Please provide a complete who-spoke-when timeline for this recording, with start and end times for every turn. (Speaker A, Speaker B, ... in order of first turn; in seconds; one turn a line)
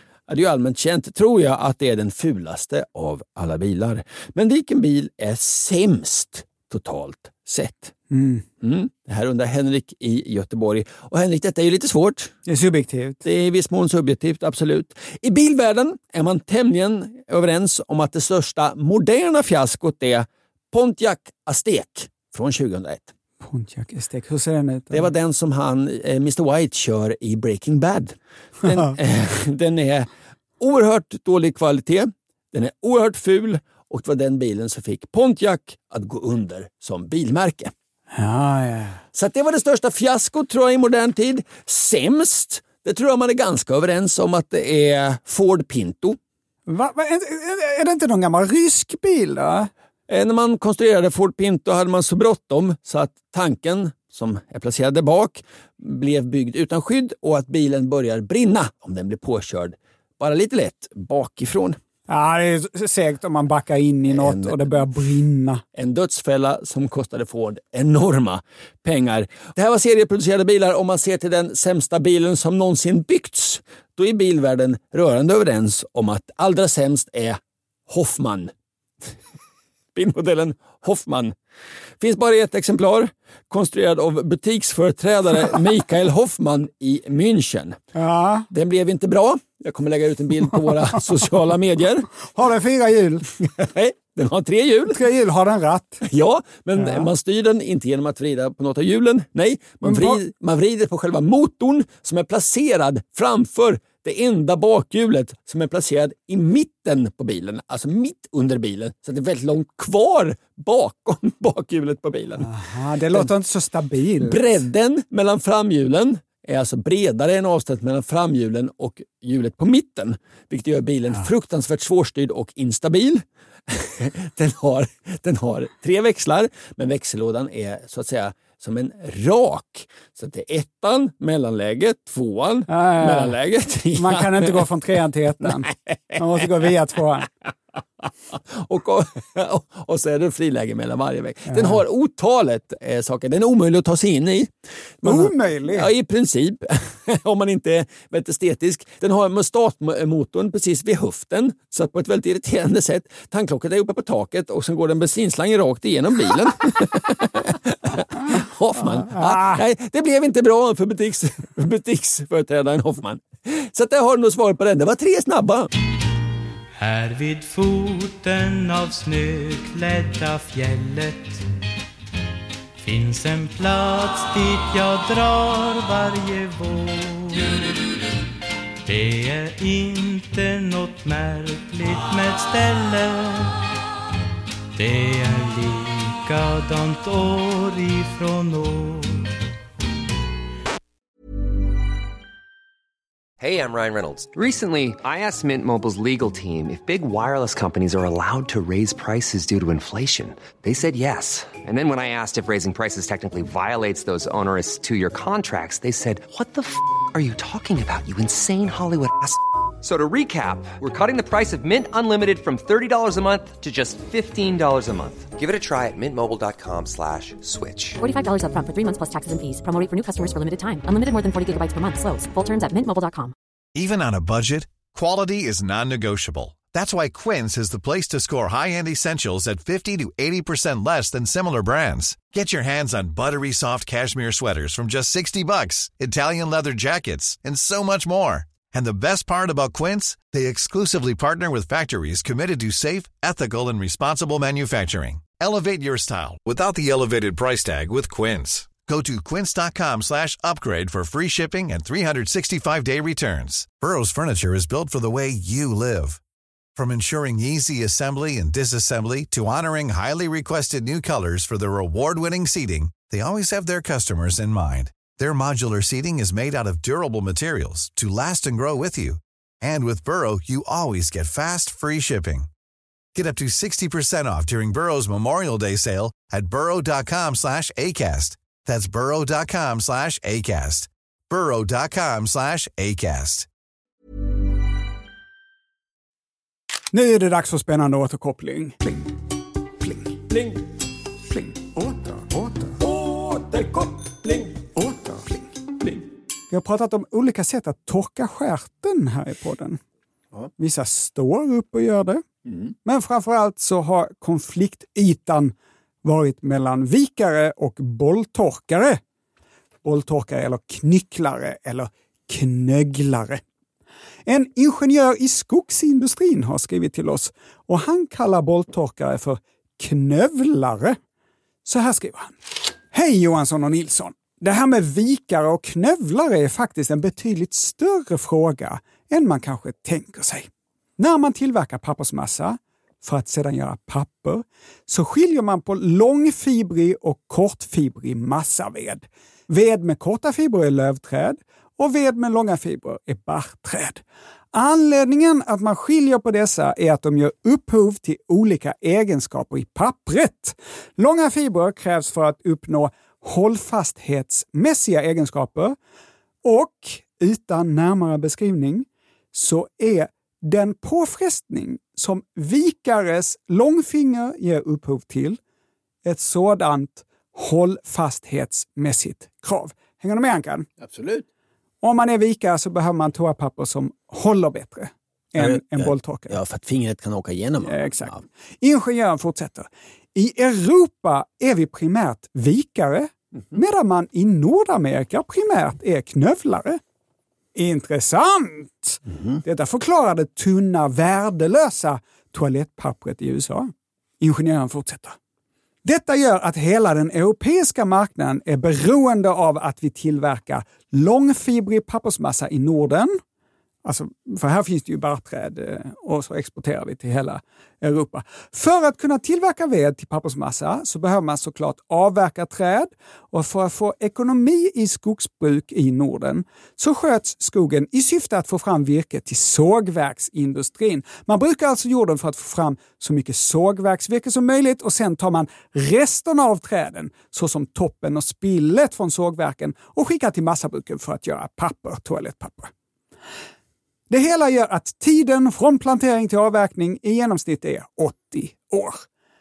Speaker A: 0.3-7.9
Speaker B: 8.1-8.4
Speaker A: 8.6-12.3
Speaker B: 12.4-13.2
Speaker A: 13.2-23.1
Speaker B: 23.4-25.1
Speaker A: 24.9-30.1
Speaker A: 30.6-37.7
Speaker B: 38.1-39.0
Speaker A: 39.1-46.2
Speaker B: 46.7-49.7
Speaker A: 50.1-61.8
Speaker B: 62.1-65.6
Speaker A: 64.1-64.6
Speaker A: 65.7-78.5
Speaker A: 79.9-81.3
Speaker A: 82.0-87.8
Speaker B: 87.9-88.5
Speaker A: 88.5-92.1
Speaker B: 92.3-93.3
Speaker A: 93.4-95.0
Speaker B: 94.9-96.0
Speaker A: 96.0-112.5
Speaker B: 96.8-97.1
Speaker B: 99.8-100.2
Speaker B: 112.4-114.6
Speaker A: 114.2-134.7
Speaker B: 132.7-133.3
Speaker B: 133.9-137.3
Speaker A: 135.4-136.5
Speaker A: 138.0-144.5
Speaker B: 141.5-141.8
Speaker A: 145.0-165.7
Speaker B: 145.0-145.9
Speaker B: 158.8-159.6
Speaker C: 166.8-171.4
Speaker C: 172.8-177.6
Speaker C: 178.8-183.6
Speaker C: 184.7-189.3
Speaker D: 193.4-218.0
Speaker E: 218.0-223.3
Speaker F: 223.7-256.2
Speaker F: 256.8-272.5
Speaker F: 273.1-283.5
Speaker B: 286.9-289.1
Speaker B: 289.8-290.1
Speaker A: 290.3-290.6
Speaker B: 291.3-292.8
Speaker A: 292.8-294.6
Speaker B: 294.7-295.5
Speaker B: 296.5-299.8
Speaker B: 300.6-302.2
Speaker B: 302.8-309.0
Speaker B: 309.8-313.4
Speaker B: 314.2-321.0
Speaker B: 321.6-322.4
Speaker B: 322.9-344.0
Speaker B: 344.5-355.8
Speaker B: 356.4-365.4
Speaker B: 366.0-370.7
Speaker A: 370.8-371.2
Speaker B: 371.8-376.4
Speaker A: 375.4-378.2
Speaker B: 377.6-386.8
Speaker B: 387.5-395.2
Speaker A: 389.1-389.4
Speaker B: 395.8-403.2
Speaker B: 403.8-432.7
Speaker B: 434.1-439.1